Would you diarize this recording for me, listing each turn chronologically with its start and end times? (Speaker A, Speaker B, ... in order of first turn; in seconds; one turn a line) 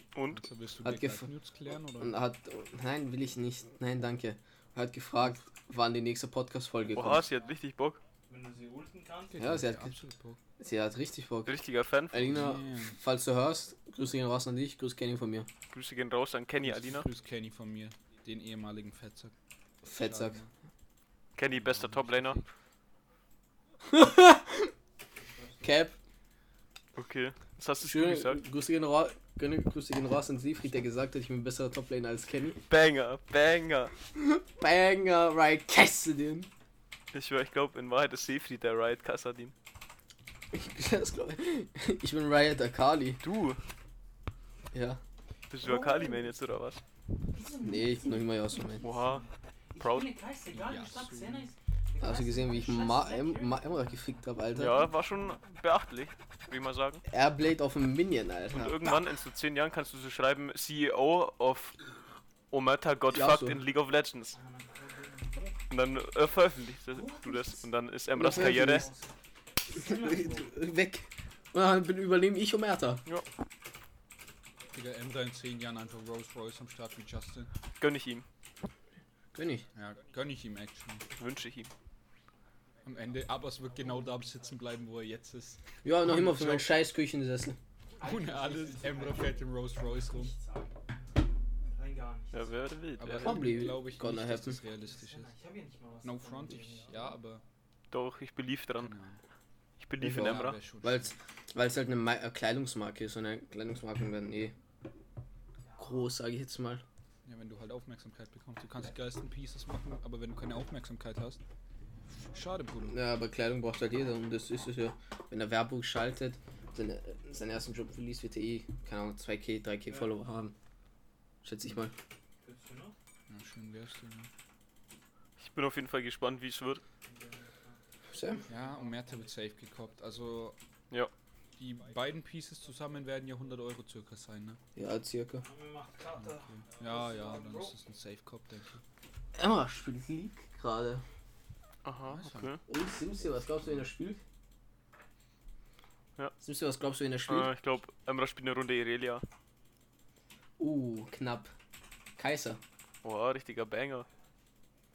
Speaker A: 0.1-0.4
Speaker B: 0.3-2.2
Speaker C: 0.8-1.3
Speaker C: 2.0-7.2
Speaker A: 6.9-8.0
Speaker D: 7.2-7.5
Speaker D: 8.3-9.5
Speaker B: 9.3-10.4
Speaker C: 9.4-9.9
Speaker C: 10.6-11.6
Speaker A: 11.4-12.4
Speaker C: 12.1-15.5
Speaker B: 12.2-13.0
Speaker A: 15.7-17.1
Speaker B: 16.6-19.3
Speaker C: 19.8-20.4
Speaker B: 19.9-20.5
Speaker A: 21.4-22.4
Speaker B: 21.5-22.4
Speaker C: 23.9-24.7
Speaker D: 25.2-25.8
Speaker C: 25.6-25.9
Speaker A: 27.0-28.4
Speaker C: 27.8-32.6
Speaker A: 32.7-33.9
Speaker C: 34.2-36.5
Speaker A: 37.1-39.5
Speaker C: 40.5-43.2
Speaker A: 43.2-43.6
Speaker C: 44.7-45.0
Speaker A: 45.5-46.8
Speaker D: 45.6-46.3
Speaker D: 47.3-54.0
Speaker C: 47.6-48.9
Speaker A: 48.8-49.2
Speaker A: 49.8-50.1
Speaker B: 50.5-51.5
Speaker C: 52.0-54.9
Speaker A: 54.5-57.0
Speaker C: 57.1-58.9
Speaker A: 58.5-61.8
Speaker A: 62.5-64.4
Speaker C: 63.1-63.6
Speaker D: 64.3-65.6
Speaker A: 65.7-68.9
Speaker D: 66.9-69.1
Speaker C: 68.1-68.9
Speaker D: 69.7-70.5
Speaker C: 69.7-73.0
Speaker B: 74.7-77.5
Speaker A: 77.8-78.3
Speaker C: 79.3-79.7
Speaker B: 79.7-81.1
Speaker A: 81.2-81.7
Speaker B: 82.8-86.7
Speaker C: 85.8-87.6
Speaker D: 88.0-90.8
Speaker B: 88.0-90.3
Speaker D: 91.7-92.6
Speaker A: 92.3-93.5
Speaker B: 93.0-95.3
Speaker C: 93.1-94.6
Speaker D: 94.8-97.2
Speaker B: 96.0-97.4
Speaker A: 97.9-98.9
Speaker B: 98.8-99.2
Speaker A: 99.8-100.6
Speaker C: 100.0-104.5
Speaker B: 100.1-101.1
Speaker D: 105.6-106.1
Speaker C: 105.8-106.8
Speaker B: 107.2-111.4
Speaker B: 112.3-113.0
Speaker C: 112.9-120.5
Speaker D: 119.9-120.1
Speaker C: 121.4-121.9
Speaker D: 122.4-123.0
Speaker B: 123.3-124.3
Speaker A: 125.4-126.8
Speaker D: 127.0-129.3
Speaker C: 128.1-128.4
Speaker B: 128.5-130.6
Speaker B: 131.6-134.6
Speaker C: 134.8-135.4
Speaker D: 135.4-137.7
Speaker B: 136.3-138.8
Speaker C: 139.3-141.0
Speaker A: 141.8-142.6
Speaker B: 142.1-142.6
Speaker C: 142.7-144.2
Speaker C: 146.4-147.5
Speaker A: 147.3-149.2
Speaker C: 150.6-151.5
Speaker C: 152.2-152.6
Speaker A: 153.0-154.1